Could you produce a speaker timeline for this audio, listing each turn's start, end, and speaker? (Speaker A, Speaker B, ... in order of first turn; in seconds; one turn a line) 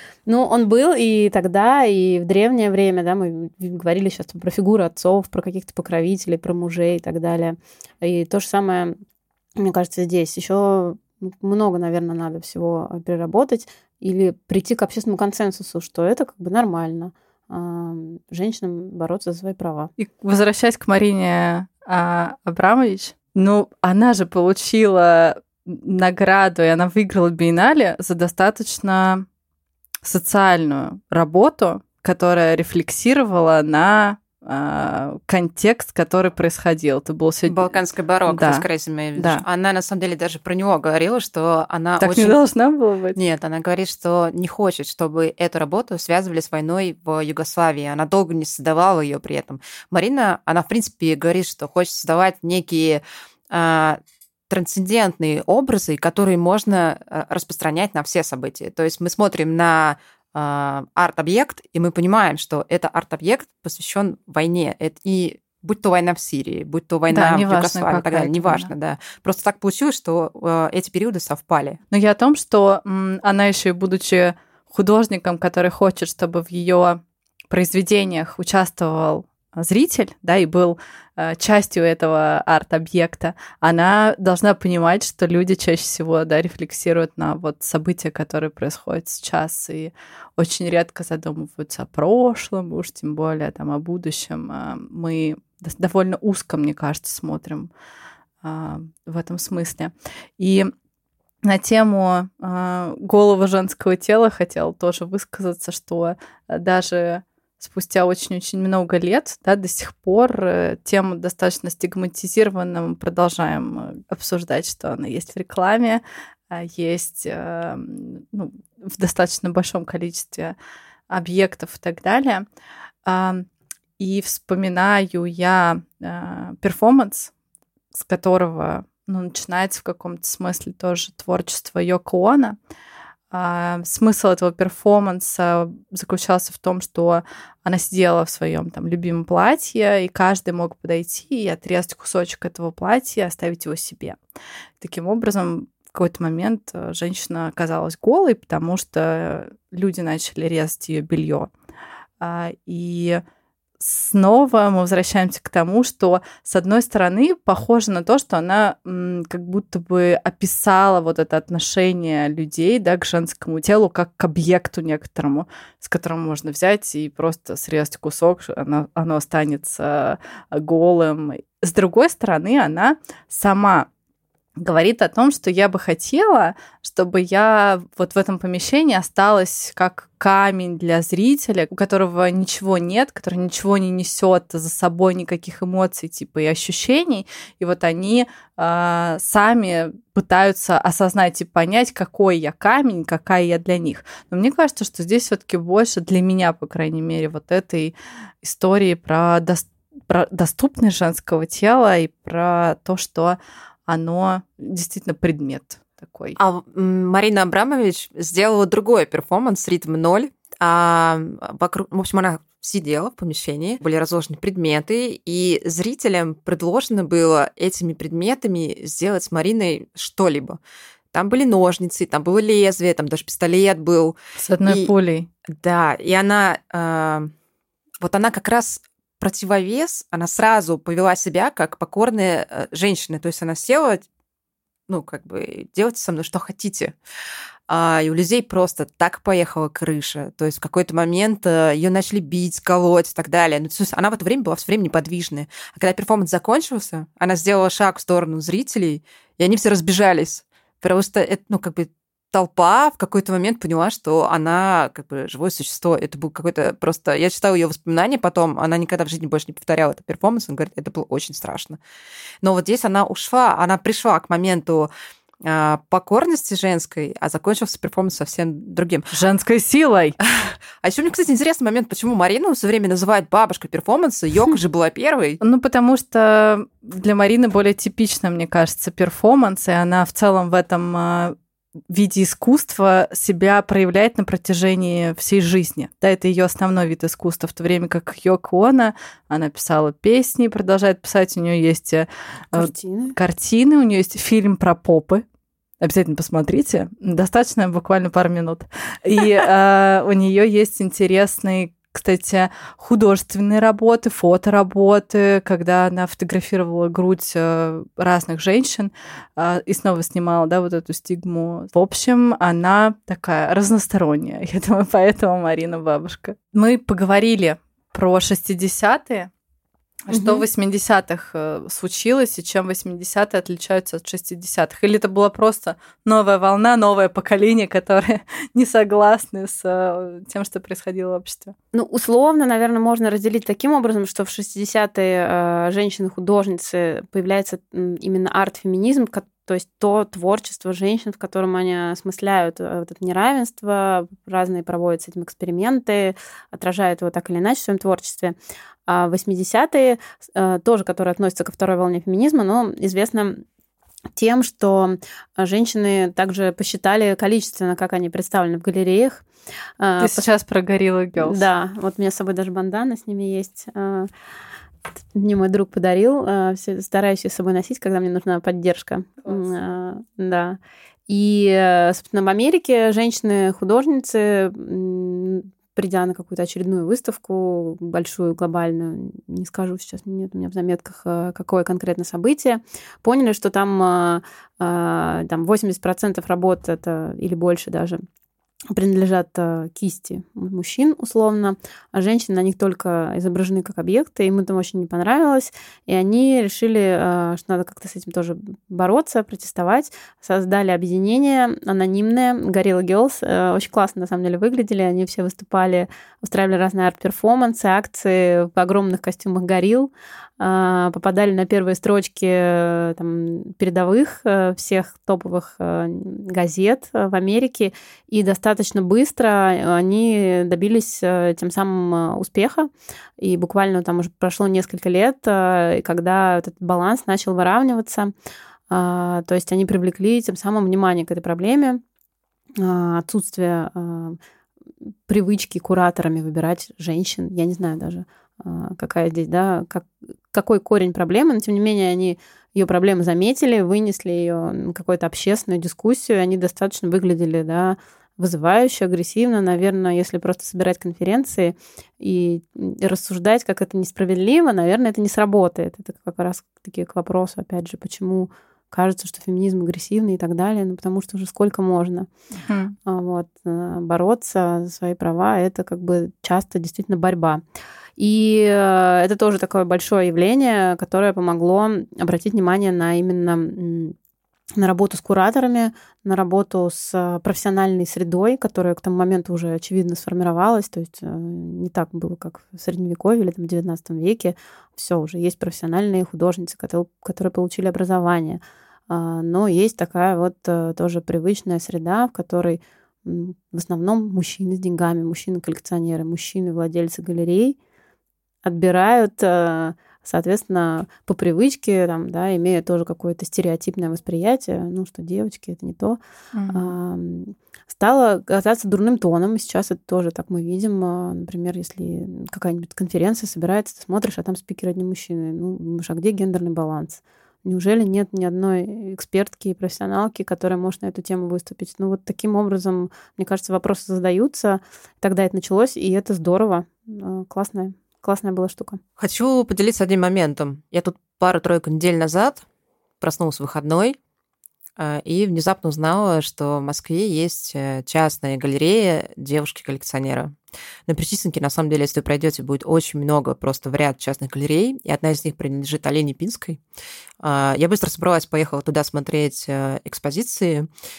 Speaker A: 0.3-8.9
Speaker A: 9.6-19.9
Speaker B: 20.0-29.2
Speaker B: 30.0-37.7
Speaker C: 37.5-42.4
Speaker B: 38.3-39.4
Speaker B: 42.0-43.2
Speaker C: 43.1-71.8
Speaker B: 67.1-68.7
Speaker B: 71.9-97.7
Speaker B: 98.4-100.7
Speaker B: 101.4-120.5
Speaker B: 121.1-122.5
Speaker B: 123.1-123.5
Speaker B: 124.0-127.3
Speaker B: 127.9-132.6
Speaker B: 133.3-144.2
Speaker B: 144.8-151.5
Speaker B: 152.2-153.2
Speaker B: 153.8-173.9
Speaker B: 174.6-206.4
Speaker C: 206.4-220.6
Speaker C: 221.1-224.9
Speaker B: 224.4-225.3
Speaker C: 225.5-227.3
Speaker C: 228.0-234.1
Speaker C: 234.9-237.0
Speaker C: 237.7-261.8
Speaker C: 262.4-264.9
Speaker C: 265.4-269.1
Speaker B: 269.1-270.2
Speaker C: 270.2-275.4
Speaker B: 275.4-281.4
Speaker B: 281.9-295.2
Speaker A: 292.5-293.2
Speaker B: 295.8-319.3
Speaker B: 320.1-331.6
Speaker A: 320.1-320.4
Speaker A: 331.7-348.4
Speaker A: 348.9-353.4
Speaker A: 354.1-359.2
Speaker A: 359.8-360.2
Speaker B: 360.0-361.4
Speaker A: 361.2-364.1
Speaker A: 365.1-388.0
Speaker A: 388.7-428.1
Speaker A: 428.7-431.8
Speaker A: 432.6-434.2
Speaker A: 435.1-462.1
Speaker B: 462.5-462.7
Speaker A: 462.9-467.4
Speaker A: 468.0-473.9
Speaker A: 474.6-497.6
Speaker A: 498.4-506.0
Speaker B: 506.3-506.7
Speaker A: 506.5-528.8
Speaker C: 529.0-532.4
Speaker C: 533.0-534.0
Speaker C: 534.8-540.4
Speaker C: 540.9-546.6
Speaker C: 547.2-550.7